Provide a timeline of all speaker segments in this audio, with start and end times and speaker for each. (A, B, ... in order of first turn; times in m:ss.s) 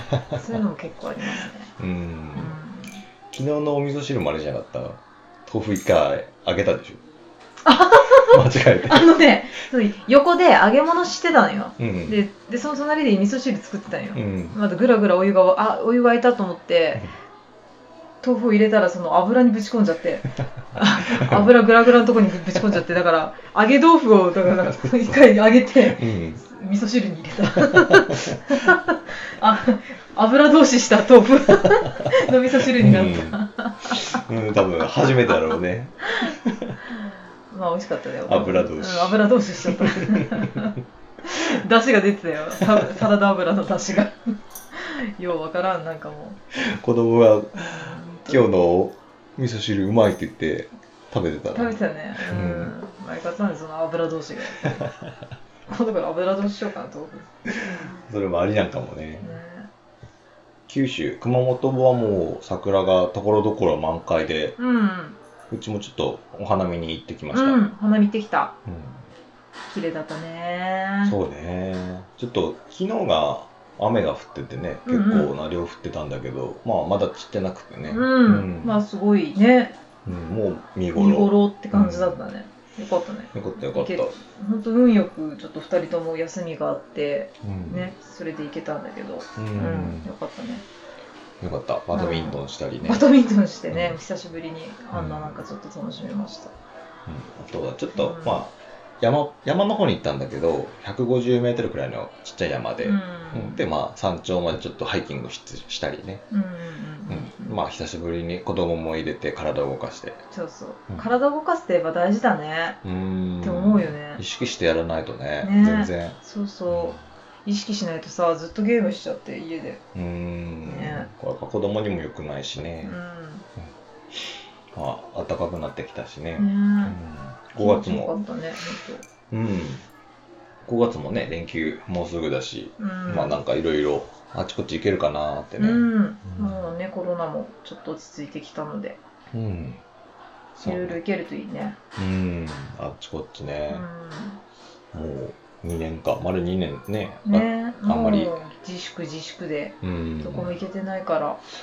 0:00.4-0:01.7 A
0:01.8-0:02.6 B
0:02.3-0:03.0 A
0:03.3-0:07.0 B
0:07.6-0:17.1 A
0:08.3-0:09.3 B
0:11.8-0:12.2 B
0:14.2-0:14.6 B
0:18.2-0:34.2 A
0:21.2-0:21.6 B
0:22.5-0:22.8 B
0:25.9-0:26.4 B
0:32.8-0:33.4 B
0:34.0-0:36.8 B
0:37.5-0:46.4 A
0:38.3-0:40.5 B
0:46.5-0:52.7 B
0:47.6-0:48.5 A
0:51.5-0:54.9 A
0:55.7-0:57.3 A
0:57.7-0:59.4 B
0:59.2-0:59.7 A
1:00.7-1:04.6 B
1:04.6-1:05.2 A
1:05.5-1:07.6 B
1:07.3-1:08.6 A
1:08.7-1:09.0 B
1:09.7-1:11.2 A
1:11.0-1:18.8 B
1:14.9-1:15.3 A
1:17.9-1:19.8 A
1:20.1-1:22.2 B
1:20.9-1:30.6 A
1:23.3-1:24.1 B
1:27.4-1:27.9 B
1:29.4-1:30.1 B
1:31.4-1:33.0 B
1:31.9-1:36.5 A
1:33.7-1:34.0 B
1:34.9-1:35.4 B
1:37.1-1:46.2 B
1:37.9-1:38.4 A
1:42.8-1:43.6 A
1:46.3-1:47.6 A
1:47.1-1:50.2 B
1:50.3-1:52.8 A
1:52.8-1:57.0 B
1:53.4-1:54.2 A
1:55.4-1:59.8 A
2:00.0-2:03.0 B
2:00.7-2:01.1 A
2:02.8-2:03.5 A
2:04.7-2:08.2 B
2:06.4-2:07.0 A
2:07.6-2:09.0 A
2:09.3-2:09.9 B
2:10.6-2:16.7 B
2:12.8-2:13.4 A
2:15.6-2:19.0 A
2:19.3-2:19.8 B
2:20.6-2:21.0 B
2:20.6-2:21.8 A
2:22.0-2:23.9 B
2:23.7-2:24.4 A
2:24.9-2:28.4 B
2:27.2-2:31.4 A
2:29.8-2:30.6 B